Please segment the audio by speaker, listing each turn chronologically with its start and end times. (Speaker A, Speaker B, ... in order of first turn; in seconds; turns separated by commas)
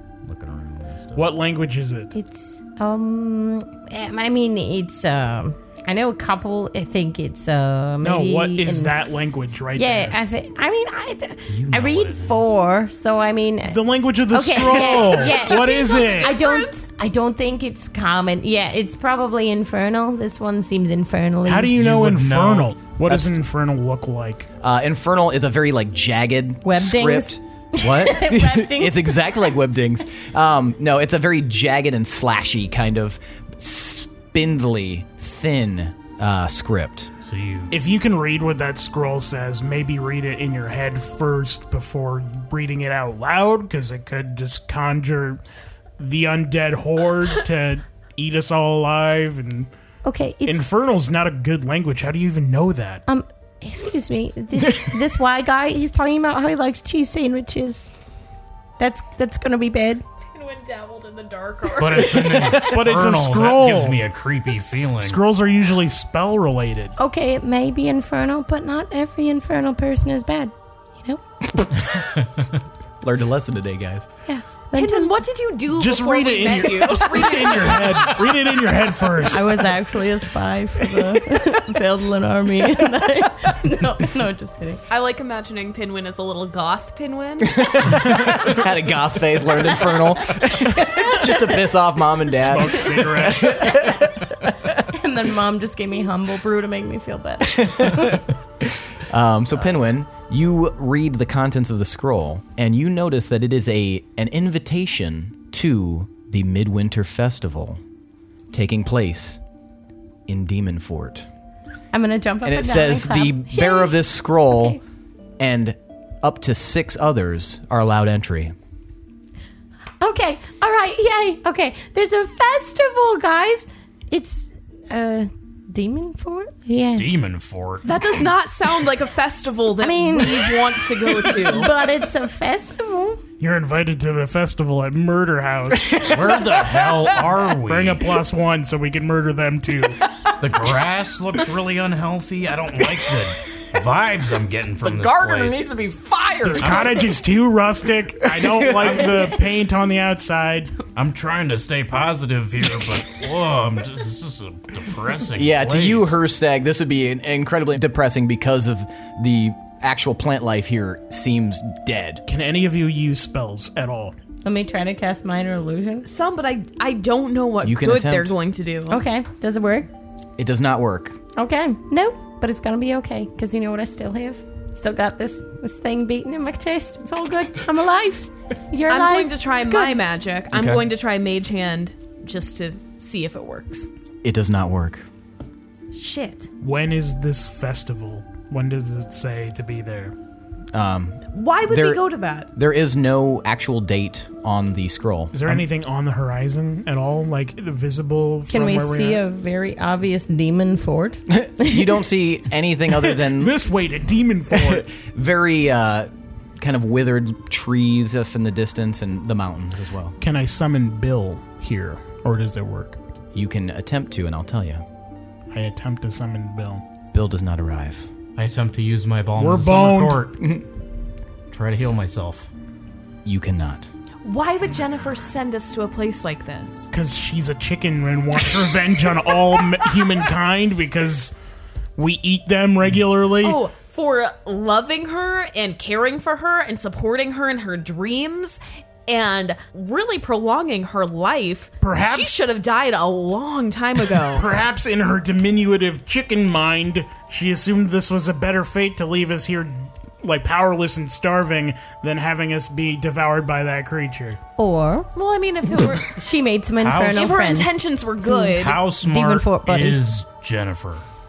Speaker A: 0.2-1.4, Speaker B: 1.1-2.1, Speaker C: 2.1-9.1, Speaker B: 8.0-10.2, Speaker C: 9.7-21.7, Speaker A: 11.5-12.5, Speaker B: 13.7-16.4, Speaker D: 15.0-16.7, Speaker B: 21.4-24.5, Speaker A: 21.8-22.8, Speaker E: 23.1-23.4, Speaker E: 24.6-37.1, Speaker C: 26.6-29.5, Speaker A: 37.2-37.8, Speaker B: 37.7-45.4, Speaker B: 46.0-49.7, Speaker C: 50.0-50.7, Speaker B: 50.5-53.0, Speaker C: 53.1-58.0, Speaker C: 58.8-60.0, Speaker D: 60.3-62.5, Speaker A: 61.7-65.2, Speaker B: 62.3-64.0, Speaker B: 65.0-67.0, Speaker C: 67.0-71.2, Speaker A: 71.9-72.5, Speaker E: 73.0-74.1, Speaker C: 74.3-75.1, Speaker D: 74.7-78.1, Speaker B: 75.7-79.7, Speaker C: 79.3-84.8, Speaker D: 84.9-87.8, Speaker E: 87.4-94.7, Speaker C: 89.9-91.6, Speaker B: 92.3-93.8, Speaker C: 93.4-94.0, Speaker C: 94.9-98.2, Speaker E: 97.5-107.8, Speaker E: 108.5-109.4, Speaker E: 110.3-111.3, Speaker C: 111.9-114.8, Speaker E: 112.4-114.8, Speaker E: 115.4-118.5, Speaker C: 120.0-127.1, Speaker A: 127.0-127.9, Speaker D: 127.8-131.7, Speaker C: 129.8-130.6, Speaker C: 131.1-133.2, Speaker B: 133.4-136.1, Speaker E: 135.8-136.1, Speaker A: 136.0-138.2, Speaker B: 137.6-140.0, Speaker A: 140.4-145.6, Speaker E: 144.8-147.1, Speaker B: 146.4-150.8, Speaker A: 146.6-146.9, Speaker E: 148.3-149.3, Speaker A: 151.0-156.2, Speaker E: 155.4-162.2, Speaker B: 162.3-164.2, Speaker C: 164.4-166.1, Speaker D: 166.0-169.0, Speaker E: 167.6-168.3, Speaker C: 168.9-169.9, Speaker E: 170.4-171.2, Speaker C: 171.4-180.0, Speaker D: 178.9-183.9, Speaker E: 180.5-180.8, Speaker E: 184.2-185.1, Speaker D: 185.9-186.5, Speaker B: 186.6-190.1, Speaker E: 190.7-195.7, Speaker D: 191.3-192.5, Speaker B: 195.3-199.2, Speaker C: 198.5-201.8, Speaker E: 201.3-203.6, Speaker B: 203.1-204.9, Speaker E: 204.5-210.2, Speaker B: 210.2-213.0, Speaker E: 213.3-214.8, Speaker B: 215.5-216.8, Speaker E: 217.1-218.1, Speaker A: 218.4-220.5, Speaker B: 219.4-220.3, Speaker E: 220.4-220.7, Speaker A: 221.5-222.5, Speaker E: 223.2-223.9, Speaker D: 224.2-226.9, Speaker B: 226.9-231.3, Speaker B: 232.0-233.6, Speaker D: 233.4-244.5, Speaker B: 241.8-242.5, Speaker B: 244.3-254.4, Speaker C: 254.6-255.1, Speaker D: 255.2-256.1, Speaker C: 255.8-260.2, Speaker A: 256.8-257.4, Speaker D: 257.1-258.8, Speaker A: 258.5-261.1